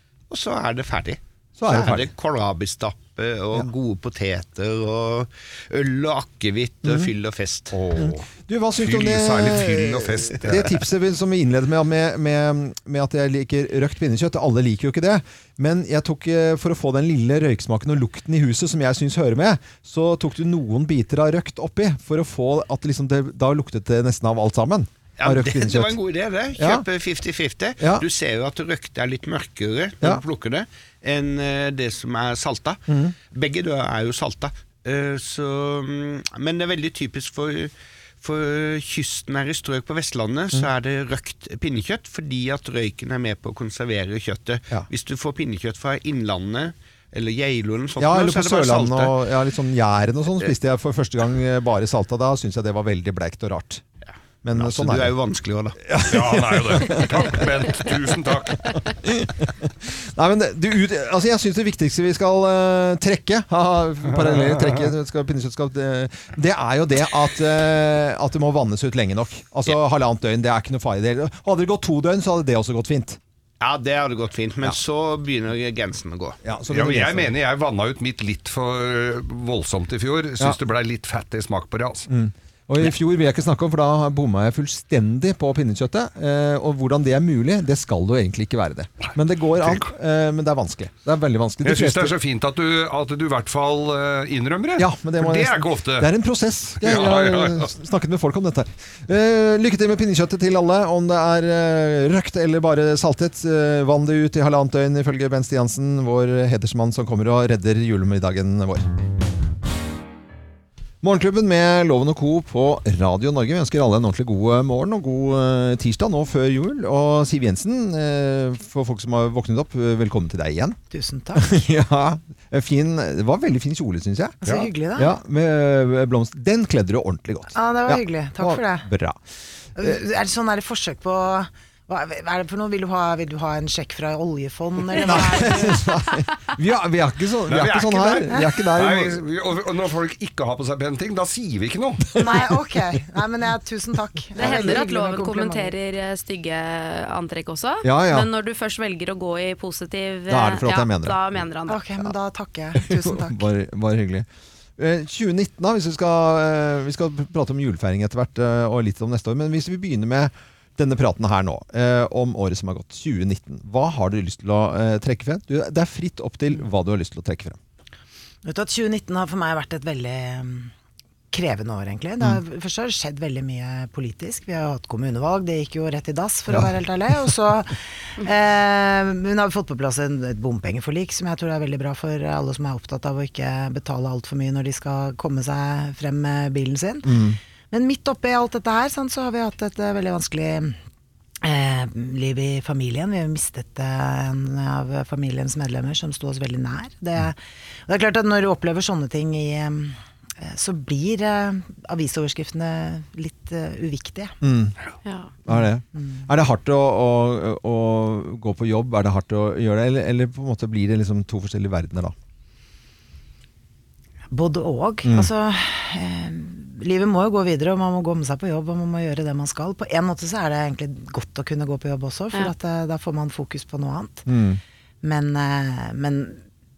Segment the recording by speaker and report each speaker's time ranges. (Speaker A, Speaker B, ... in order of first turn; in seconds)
Speaker A: 0.3-7.8, 25.2-49.1, 54.5-55.8, 73.6-76.4
Speaker B: 1.6-2.1, 6.8-7.1, 7.9-25.9, 26.6-26.9, 27.8-28.0, 32.9-33.1, 48.0-53.8, 54.4-55.1, 55.8-73.2, 76.4-77.3, 82.1-92.2, 94.8-108.8, 111.0-120.8, 121.4-124.4, 125.0-129.2, 135.0-139.2, 147.8-148.3, 150.3-151.2, 152.8-154.2, 154.8-167.6, 176.5-177.3, 187.0-187.4, 204.4-204.8, 205.5-212.1, 224.2-224.6
Speaker C: 7.7-10.7, 56.0-58.7, 64.2-64.8, 76.7-82.1, 89.6-89.9, 91.6-96.1, 96.8-97.7, 137.5-142.0
Speaker D: 120.9-121.6, 124.4-125.2, 127.5-128.9, 129.8-135.8, 142.1-145.7, 151.7-153.5, 168.4-170.7, 171.3-187.2, 187.7-190.8, 191.4-204.3, 205.9-206.2, 214.3-224.2, 225.0-226.4
Speaker E: 142.2-142.5, 144.3-151.8, 205.0-205.3